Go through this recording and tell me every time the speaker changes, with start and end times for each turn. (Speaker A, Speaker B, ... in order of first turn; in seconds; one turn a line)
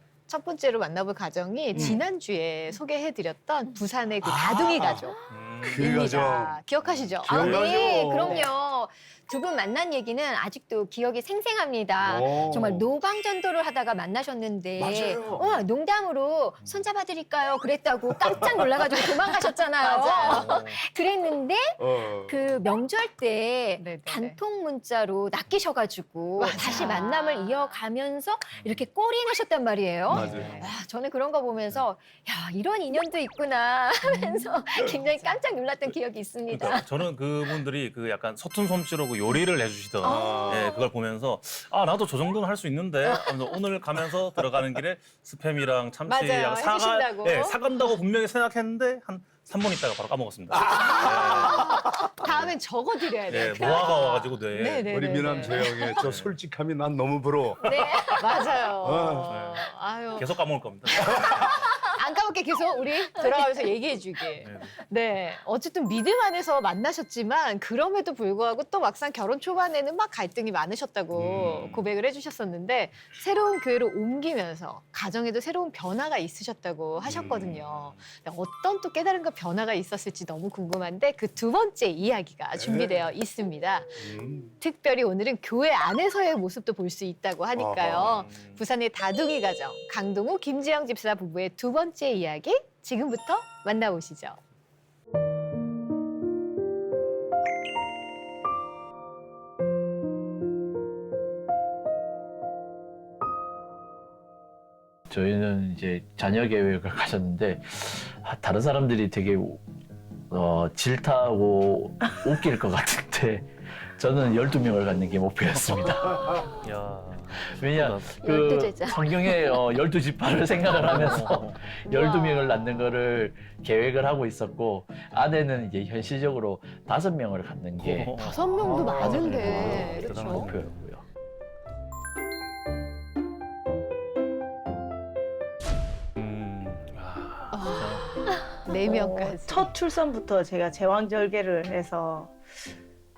Speaker A: 0.3-5.2
Speaker B: 1.7-2.0
Speaker B: 4.2-6.6
Speaker C: 5.3-6.2
Speaker A: 5.7-7.7
Speaker C: 6.8-7.9
Speaker B: 7.2-8.5
Speaker D: 7.4-37.1
Speaker B: 12.0-12.8
Speaker B: 14.8-15.6
Speaker B: 18.2-18.8
Speaker A: 18.8-19.2
Speaker A: 19.8-20.6
Speaker C: 20.4-20.8
Speaker B: 21.8-22.5
Speaker A: 23.8-24.4
Speaker A: 26.4-27.8
Speaker C: 26.6-26.9
Speaker C: 28.6-28.8
Speaker B: 30.1-30.7
Speaker C: 30.1-30.6
Speaker A: 30.1-30.5
Speaker C: 36.5-52.5
Speaker B: 40.0-40.7
Speaker D: 40.0-40.8
Speaker A: 46.1-47.6
Speaker A: 50.6-55.9
Speaker C: 53.3-56.4
Speaker B: 54.9-58.1
Speaker C: 57.6-58.5
Speaker A: 57.6-60.3
Speaker B: 58.8-59.4
Speaker C: 59.3-62.0
Speaker A: 61.0-94.4
Speaker D: 63.1-63.7
Speaker C: 64.4-64.7
Speaker B: 71.1-71.6
Speaker C: 71.2-71.9
Speaker B: 77.0-77.6
Speaker C: 77.0-78.0
Speaker B: 82.5-83.1
Speaker B: 84.0-84.5
Speaker B: 87.5-88.2
Speaker C: 87.9-88.6
Speaker E: 105.1-109.6
Speaker E: 110.3-116.5
Speaker C: 116.6-118.3
Speaker E: 117.5-131.0
Speaker D: 118.2-119.6
Speaker C: 120.7-121.6
Speaker A: 121.9-122.4
Speaker C: 127.8-130.8
Speaker A: 128.2-130.5
Speaker C: 136.2-138.1
Speaker A: 137.5-138.1
Speaker D: 138.3-138.6
Speaker A: 138.7-139.7
Speaker F: 138.7-142.3